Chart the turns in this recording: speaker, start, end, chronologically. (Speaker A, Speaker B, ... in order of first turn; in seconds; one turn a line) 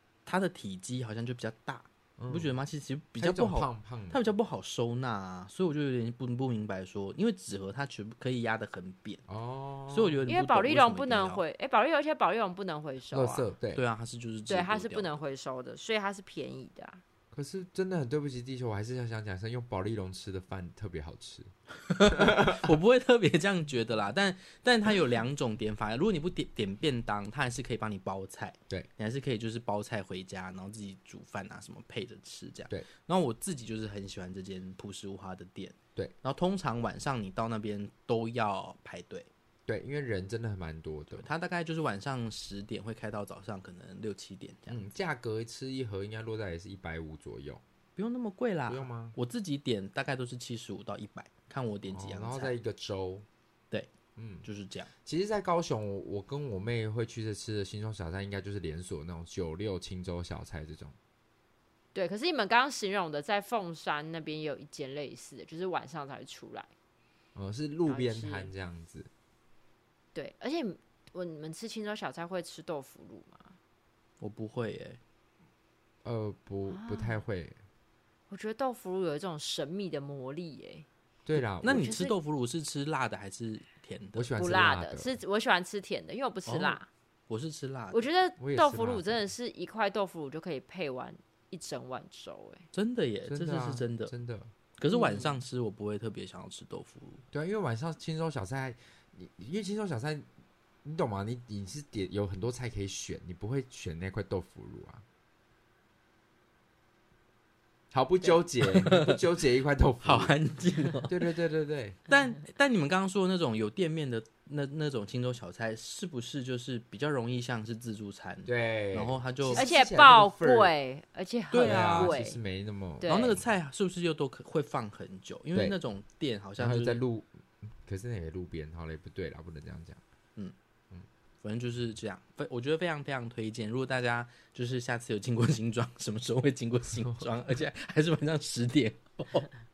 Speaker A: 0.2-9.2
Speaker B: 2.2-2.5
Speaker B: 3.2-4.2
Speaker B: 9.3-10.2
Speaker A: 9.9-11.4
Speaker C: 10.3-13.4
Speaker B: 13.1-13.8
Speaker A: 13.7-15.1
Speaker C: 14.5-17.0
Speaker B: 17.3-21.5
Speaker A: 21.9-39.3
Speaker B: 22.1-22.7
Speaker B: 39.7-41.3
Speaker A: 41.1-44.8
Speaker B: 44.7-47.6
Speaker A: 48.0-52.5
Speaker B: 48.7-49.2
Speaker B: 51.9-53.2
Speaker B: 54.2-54.5
Speaker A: 54.4-54.9
Speaker B: 55.0-61.0
Speaker C: 62.0-66.7
Speaker B: 67.3-69.1
Speaker C: 67.9-68.5
Speaker C: 70.1-73.5
Speaker A: 74.2-75.0
Speaker B: 76.0-77.6
Speaker C: 76.7-77.2
Speaker C: 78.3-80.8
Speaker B: 81.2-81.9
Speaker A: 81.6-84.3
Speaker C: 81.7-82.1
Speaker B: 84.2-85.1
Speaker C: 84.4-86.9
Speaker A: 86.5-88.0
Speaker C: 87.9-92.7
Speaker B: 88.4-89.2
Speaker A: 92.7-94.1
Speaker B: 93.3-94.5
Speaker A: 94.8-97.2
Speaker C: 94.9-95.4
Speaker B: 97.3-100.3
Speaker B: 100.8-105.0
Speaker B: 107.9-110.3
Speaker A: 108.6-109.2
Speaker A: 110.0-111.2
Speaker B: 111.0-112.0
Speaker A: 112.1-119.6
Speaker B: 118.5-120.7
Speaker C: 119.5-122.4
Speaker A: 121.5-122.2
Speaker B: 121.6-123.4
Speaker C: 123.0-123.3
Speaker A: 123.0-127.0
Speaker B: 126.6-130.0
Speaker A: 131.4-139.5